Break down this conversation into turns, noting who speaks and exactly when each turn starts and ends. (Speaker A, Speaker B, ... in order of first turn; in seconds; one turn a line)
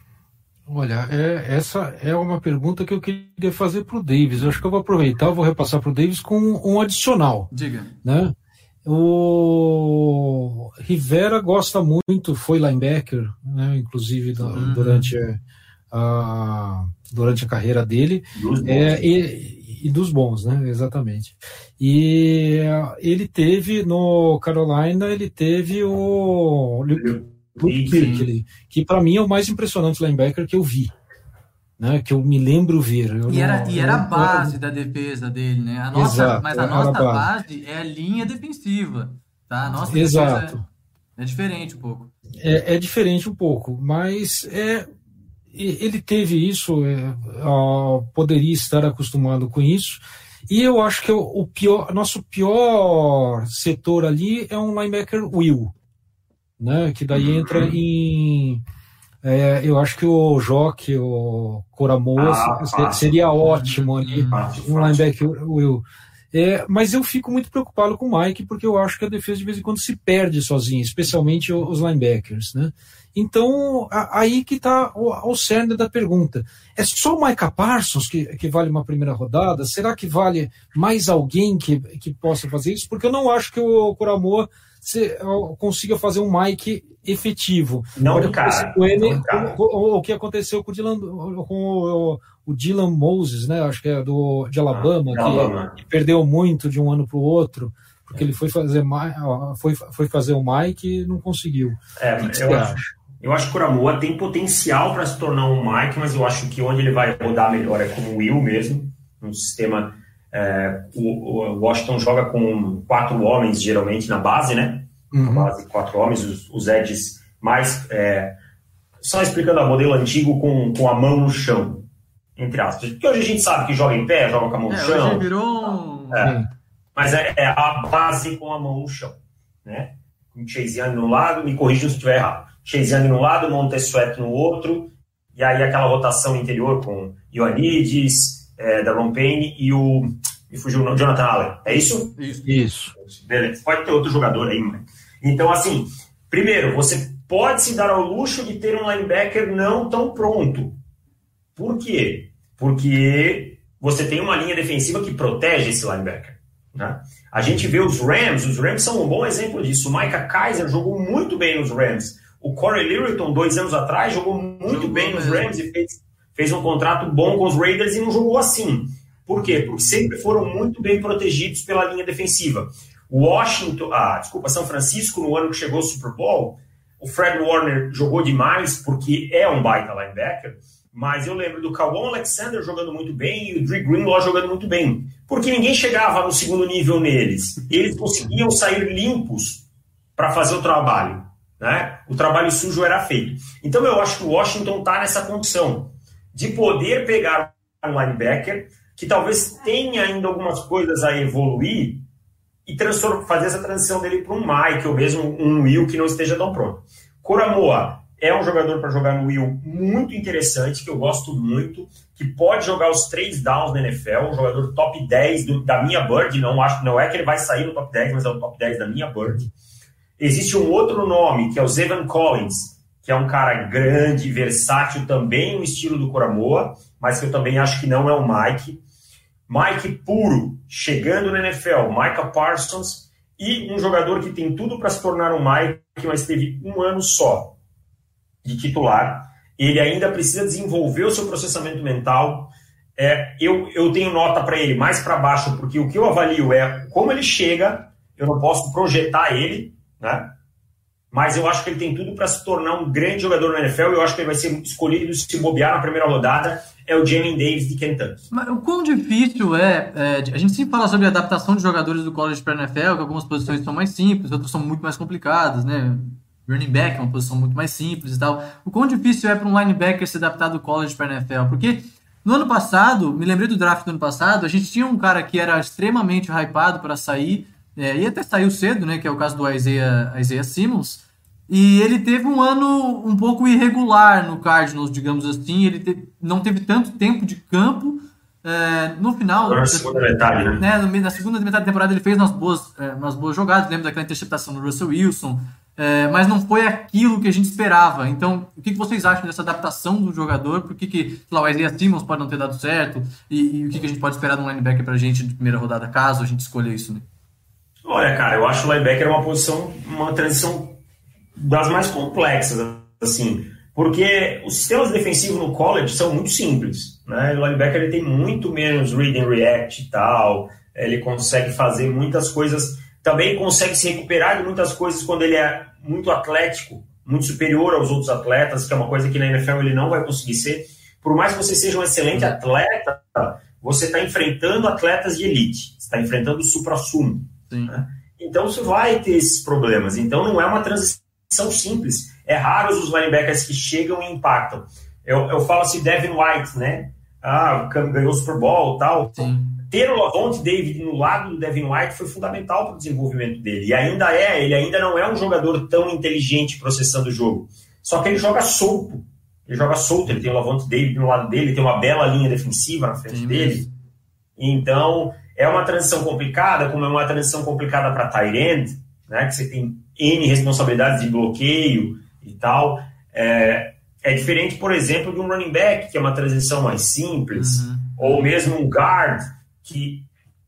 Speaker A: 0.7-7.5
Speaker B: 7.5-7.9
Speaker A: 8.0-8.3
Speaker A: 8.8-15.4
Speaker B: 14.5-15.1
Speaker A: 15.9-30.9
Speaker C: 18.3-19.0
Speaker C: 26.9-28.1
Speaker B: 27.9-28.3
Speaker A: 31.8-34.5
Speaker B: 33.3-40.6
Speaker A: 35.9-37.3
Speaker A: 39.8-40.6
Speaker B: 41.2-42.1
Speaker A: 42.4-44.9
Speaker A: 45.5-55.7
Speaker A: 56.6-58.6
Speaker C: 57.1-57.8
Speaker A: 59.2-102.9
Speaker C: 62.1-63.2
Speaker B: 63.6-64.4
Speaker C: 64.3-65.0
Speaker C: 88.0-89.6
Speaker C: 94.7-95.7
Speaker C: 102.0-118.3
Speaker A: 115.1-115.5
Speaker C: 119.0-121.8
Speaker C: 122.4-125.4
Speaker B: 124.7-126.3
Speaker A: 126.2-126.5
Speaker C: 126.9-142.1
Speaker B: 142.1-142.6
Speaker A: 142.4-142.9
Speaker C: 143.0-150.8
Speaker C: 151.6-189.6
Speaker B: 164.7-165.5
Speaker C: 190.2-202.0
Speaker C: 202.7-219.5
Speaker C: 220.2-228.8
Speaker C: 229.5-237.5
Speaker C: 238.4-250.3
Speaker C: 251.1-258.2
Speaker B: 258.3-307.1
Speaker C: 289.4-290.6
Speaker C: 307.8-310.8
Speaker C: 311.4-363.6
Speaker B: 337.5-337.8
Speaker B: 349.1-349.6
Speaker B: 363.1-363.7
Speaker C: 364.4-380.1
Speaker B: 377.3-378.3